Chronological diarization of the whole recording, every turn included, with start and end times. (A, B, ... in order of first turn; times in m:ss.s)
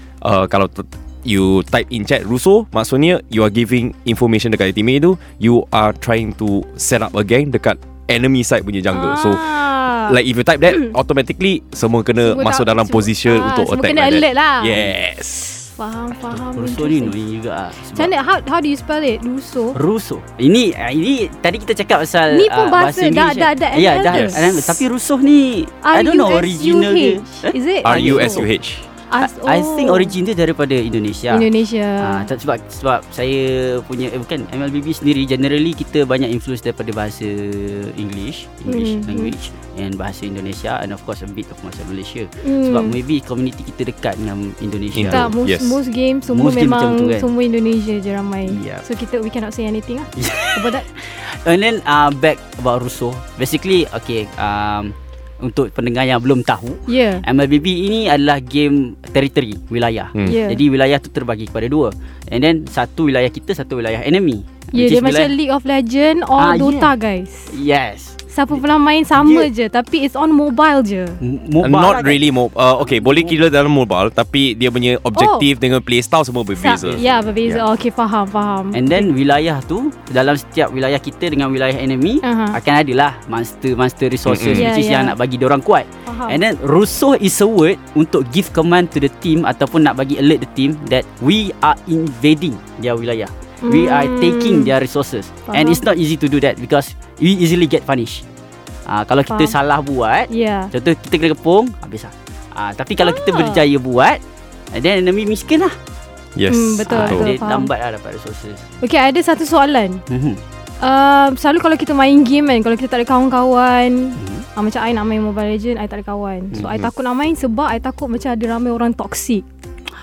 0:00.2-0:15.7 A
0:08.9-0:10.2 B
0:12.2-0:14.8 B
0:15.7-0:17.2 B
0:16.3-0:18.1 C
0:17.9-0:19.8 B
0:19.7-0:28.5 C
0:22.3-0:24.8 B
0:24.1-0:24.5 A
0:25.8-0:28.4 B
0:27.8-0:28.8 A
0:29.1-0:30.1 B
0:29.2-0:45.3 C
0:31.3-0:32.3 B
0:38.6-0:39.3 B
0:42.4-0:43.0 B
0:44.9-0:45.8 A
0:45.0-0:50.9 B
0:46.3-0:47.3 C
0:48.5-0:48.8 C
0:50.2-1:05.3 C
0:56.9-0:57.2 B
1:00.2-1:00.6 B
1:04.7-1:07.5 B
1:06.4-1:06.9 C
1:07.5-1:09.5 C
1:08.3-1:11.2 B
1:11.2-1:13.4 C
1:11.6-1:17.6 A
1:15.1-1:15.5 B
1:16.5-1:19.1 B
1:16.8-1:17.3 C
1:18.7-1:38.2 C
1:22.2-1:22.6 B
1:24.2-1:24.7 A
1:24.5-1:25.2 B
1:26.0-1:26.4 B
1:33.6-1:34.7 B
1:35.5-1:35.8 B
1:38.8-1:44.2 C
1:39.3-1:39.5 B
1:40.3-1:40.7 B
1:43.0-1:43.6 B
1:44.7-1:45.8 C
1:46.4-1:47.3 A
1:46.5-1:47.7 B
1:46.9-1:48.7 C
1:48.8-1:50.0 B
1:50.1-1:50.4 C
1:50.8-1:59.4 B
1:54.2-1:54.4 C
1:56.6-1:56.9 A